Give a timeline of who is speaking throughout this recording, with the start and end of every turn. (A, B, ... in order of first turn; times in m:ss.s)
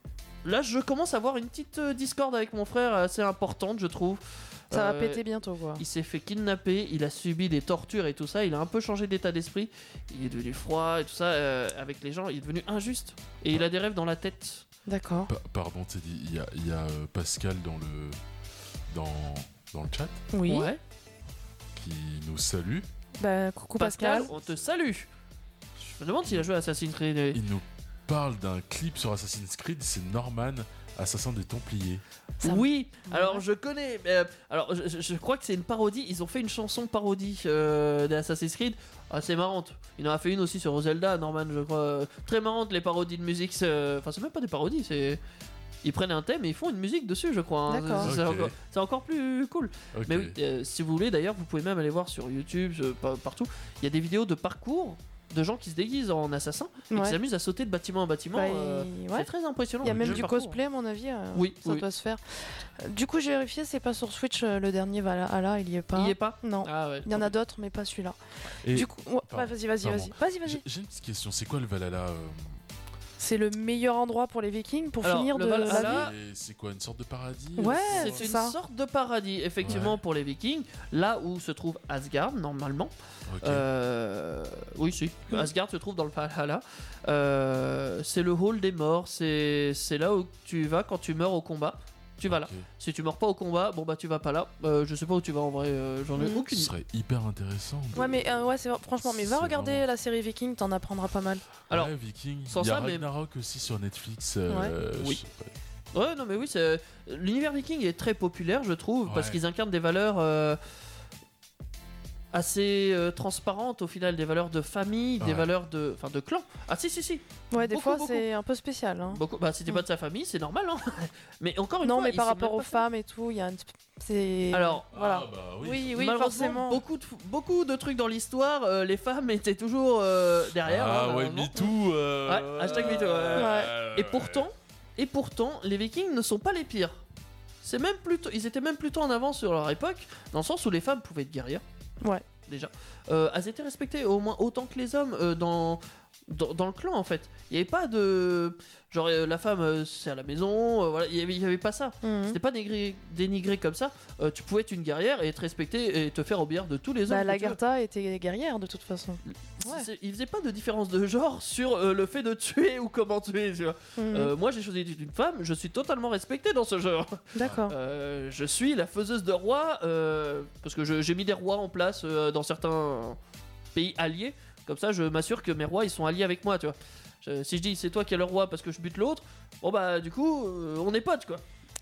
0:00.4-0:05.2 A
0:04.7-0:05.8 B
0:05.8-0:14.6 A
0:14.9-0:15.3 B
0:15.3-0:18.2 C
0:18.9-0:20.2 C
0:20.3-0:20.7 B
0:20.5-0:20.8 A
0:21.7-0:22.9 C
0:23.2-0:24.3 B
0:23.8-0:25.1 A
0:24.4-0:24.6 C
0:25.8-0:27.4 A
0:27.3-0:32.0 C
0:32.4-0:33.4 B
0:32.4-0:45.2 A
0:45.8-1:00.6 A
0:47.7-0:48.1 B
0:48.0-0:48.5 C
0:49.9-0:50.4 C
0:56.9-0:57.2 B
0:58.3-0:59.3 B
0:59.8-1:08.2 B
0:59.8-1:00.3 C
1:01.3-1:01.8 A
1:05.9-1:07.3 A
1:08.6-1:12.6 C
1:08.7-1:10.6 B
1:13.2-1:16.1 B
1:15.0-1:16.1 A
1:15.7-1:18.2 C
1:17.6-1:18.5 B
1:17.9-1:36.7 A
1:19.6-1:20.0 C
1:23.3-1:23.6 C
1:32.3-1:32.6 C
1:36.2-1:36.4 B
1:36.5-1:38.5 C
1:37.9-1:41.4 B
1:39.0-1:39.8 C
1:41.7-1:45.5 C
1:42.5-1:43.0 A
1:45.9-1:50.6 A
1:49.0-1:49.4 C
1:52.3-1:58.2 A
1:55.2-1:55.5 C
1:57.5-1:59.8 B
1:59.1-2:02.8 A
2:01.8-2:06.8 B
2:04.5-2:04.9 A
2:04.9-2:06.0 C
2:05.9-2:11.5 A
2:10.6-2:14.5 C
2:12.2-2:17.0 A
2:12.7-2:13.7 B
2:17.6-2:21.6 A
2:22.5-2:37.6 A
2:32.0-2:32.4 B
2:37.1-2:39.9 B
2:39.6-2:53.2 A
2:44.0-2:44.3 B
2:47.3-2:47.7 B
2:53.7-3:01.4 A